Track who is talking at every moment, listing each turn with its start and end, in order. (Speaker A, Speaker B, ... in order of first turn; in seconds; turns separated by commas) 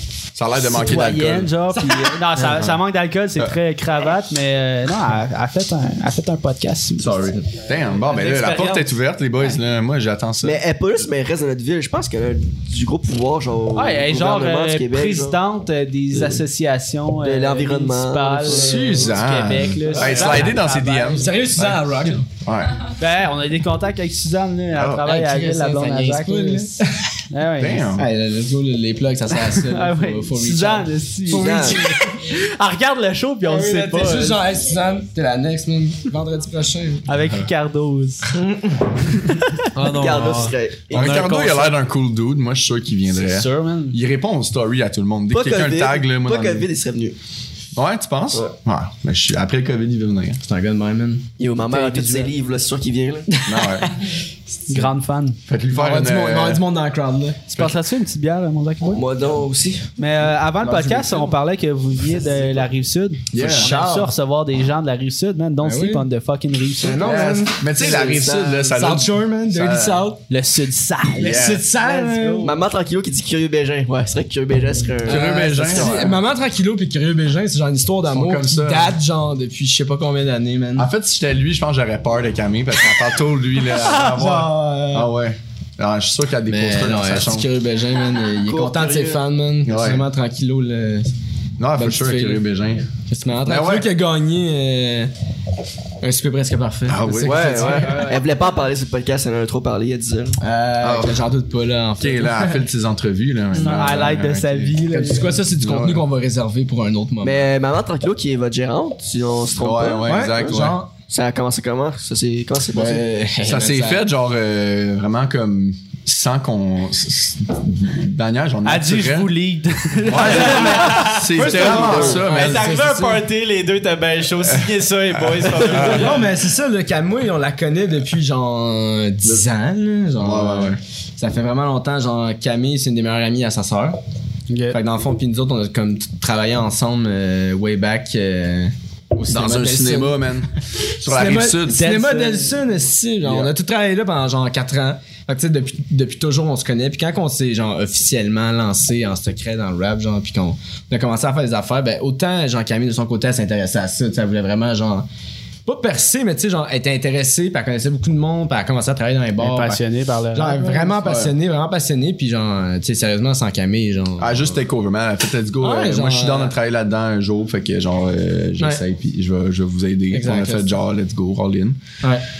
Speaker A: 0.3-1.5, Speaker B: 0.5-7.3, Speaker C: 1.7-2.2, Speaker A: 2.4-2.8, Speaker A: 7.0-10.6, Speaker D: 8.0-8.9, Speaker E: 10.4-15.4, Speaker B: 13.7-21.3, Speaker E: 16.1-16.4, Speaker E: 17.2-19.0, Speaker A: 18.5-22.9, Speaker C: 19.9-20.4, Speaker C: 21.0-22.2, Speaker B: 23.0-26.7, Speaker A: 24.7-25.1, Speaker C: 25.0-27.1, Speaker B: 27.3-28.0, Speaker A: 27.6-28.1, Speaker C: 27.9-32.2, Speaker B: 29.4-34.4, Speaker E: 31.3-31.8, Speaker C: 33.4-37.1, Speaker B: 37.1-38.3, Speaker A: 37.2-37.5, Speaker C: 38.3-39.2, Speaker D: 39.7-41.8, Speaker E: 39.9-41.2, Speaker A: 40.9-46.7, Speaker B: 43.2-44.0, Speaker E: 45.3-47.2, Speaker A: 47.7-50.4, Speaker C: 50.4-51.3, Speaker E: 51.4-53.3, Speaker B: 51.7-52.3, Speaker C: 53.3-53.9, Speaker A: 53.5-53.9, Speaker B: 54.7-55.4, Speaker A: 55.5-56.6, Speaker C: 55.7-57.4, Speaker B: 57.5-59.0, Speaker E: 58.9-59.9, Speaker B: 60.0-67.1, Speaker C: 60.6-61.3, Speaker A: 60.6-61.0, Speaker A: 63.3-63.7, Speaker C: 63.3-64.1, Speaker C: 65.6-66.1, Speaker C: 66.8-70.2, Speaker A: 67.0-70.1, Speaker E: 67.8-68.7, Speaker B: 70.3-72.6, Speaker A: 71.2-71.6, Speaker C: 71.2-72.6, Speaker E: 72.4-76.1, Speaker A: 75.0-76.2, Speaker C: 75.1-80.9, Speaker A: 78.1-79.0, Speaker A: 80.8-87.5, Speaker C: 83.9-85.1, Speaker C: 86.5-91.1, Speaker E: 88.4-89.2, Speaker A: 89.6-90.0, Speaker A: 91.6-92.9, Speaker C: 91.8-92.4, Speaker C: 93.0-95.1, Speaker A: 93.4-93.9, Speaker C: 96.0-98.2, Speaker A: 96.8-98.0, Speaker E: 97.2-100.4, Speaker C: 100.4-102.6, Speaker A: 100.8-101.2, Speaker A: 102.0-104.8, Speaker B: 103.5-105.4, Speaker C: 104.9-107.5, Speaker A: 105.5-106.0, Speaker E: 107.2-113.0, Speaker A: 109.5-110.8, Speaker C: 110.0-110.9, Speaker C: 112.7-114.0, Speaker A: 113.4-119.3, Speaker B: 118.6-121.9, Speaker A: 120.0-122.7, Speaker C: 120.2-123.2, Speaker D: 121.4-126.2, Speaker A: 125.3-126.1, Speaker C: 125.6-133.9, Speaker A: 130.2-130.8, Speaker B: 134.5-134.8, Speaker C: 134.7-140.2, Speaker A: 139.3-140.5, Speaker A: 141.0-142.0, Speaker C: 141.0-155.1, Speaker B: 141.7-142.6, Speaker A: 143.2-143.5, Speaker C: 155.7-159.8, Speaker B: 159.4-161.0, Speaker C: 160.3-164.6, Speaker A: 161.0-161.3, Speaker A: 164.2-171.8, Speaker C: 165.6-166.5, Speaker C: 170.1-170.7